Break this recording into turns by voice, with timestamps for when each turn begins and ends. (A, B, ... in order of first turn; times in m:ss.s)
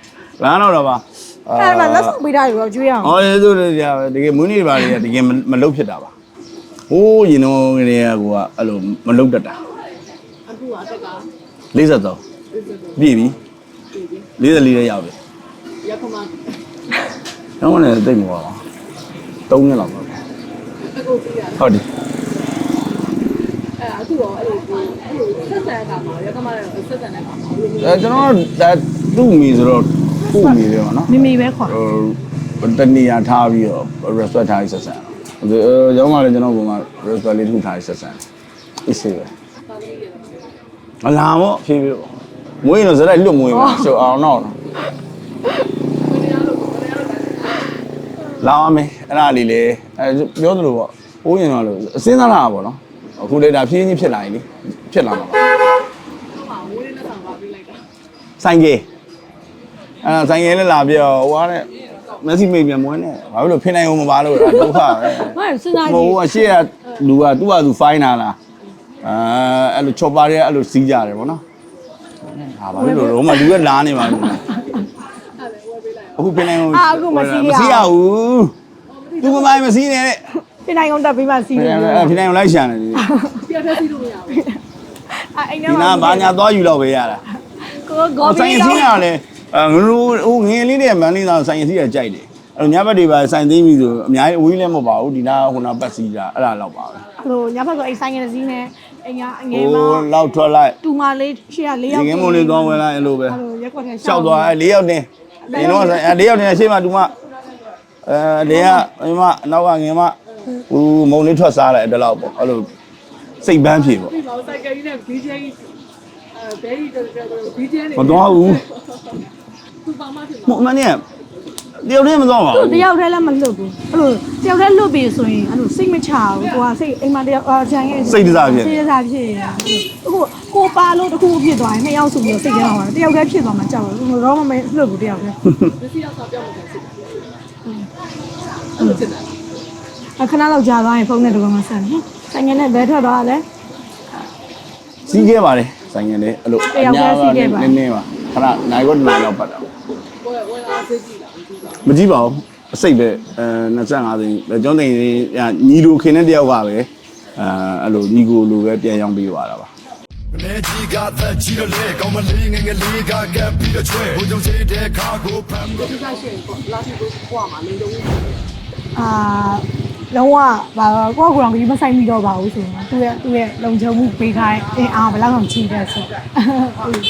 0:00.4-0:02.2 A
0:01.6-0:03.2 B
0:03.0-0:06.1 A
0:06.9-0:09.6 A
0:10.5-0:11.3 C
0:11.7-0:12.2 A
0:12.5-0:13.2 C
0:13.0-0:13.4 A
0:13.9-0:14.3 C
0:14.4-0:15.2 A
0:15.8-0:16.5 C
0:17.6-0:18.6 A
0:19.5-0:20.2 A
0:20.8-0:21.7 C
0:21.6-0:21.8 A
0:23.8-0:28.3 C
0:27.8-0:38.2 A
0:30.3-0:31.8 B
0:38.8-0:39.3 A
0:39.6-0:40.5 C
0:41.0-0:44.6 A
0:43.5-0:44.0 B
0:46.0-0:47.7 C
0:48.4-0:55.4 A
0:56.3-0:57.8 C
0:58.4-0:58.8 A
1:00.0-1:08.4 A
1:04.4-1:06.6 B
1:09.0-1:11.4 A
1:12.2-1:14.4 A
1:12.8-1:14.8 B
1:15.4-1:16.3 C
1:16.2-1:18.5 A
1:16.4-1:17.9 B
1:18.9-1:19.6 C
1:19.2-1:20.2 A
1:20.6-1:22.2 B
1:21.5-1:23.1 A
1:22.9-1:23.4 B
1:23.4-1:24.5 C
1:24.3-1:26.4 B
1:25.6-1:27.2 A
1:27.6-1:29.0 B
1:28.2-1:37.0 A
1:37.2-1:40.1 B
1:39.5-1:40.8 A
1:40.8-1:44.6 B
1:41.9-1:43.4 A
1:44.0-1:47.1 A
1:45.4-1:46.1 B
1:45.5-1:45.9 C
1:48.0-1:50.2 A
1:48.4-1:48.8 B
1:50.7-1:52.7 A
1:53.4-1:54.1 A
1:53.9-1:55.7 C
1:56.3-1:59.3 C
1:57.9-1:58.6 A
1:59.8-2:00.6 C
2:00.4-2:01.0 A
2:01.8-2:02.9 A
2:02.5-2:15.4 B
2:08.0-2:08.9 A
2:15.5-2:15.7 A
2:15.7-2:17.3 C
2:18.8-2:19.4 C
2:20.2-2:23.4 B
2:25.0-2:29.7 A
2:26.7-2:27.8 B
2:30.2-2:31.9 C
2:31.8-2:39.7 A
2:40.4-2:41.3 D
2:42.0-2:43.2 D
2:44.2-2:44.6 A
2:45.4-2:48.4 C
2:48.9-2:56.9 B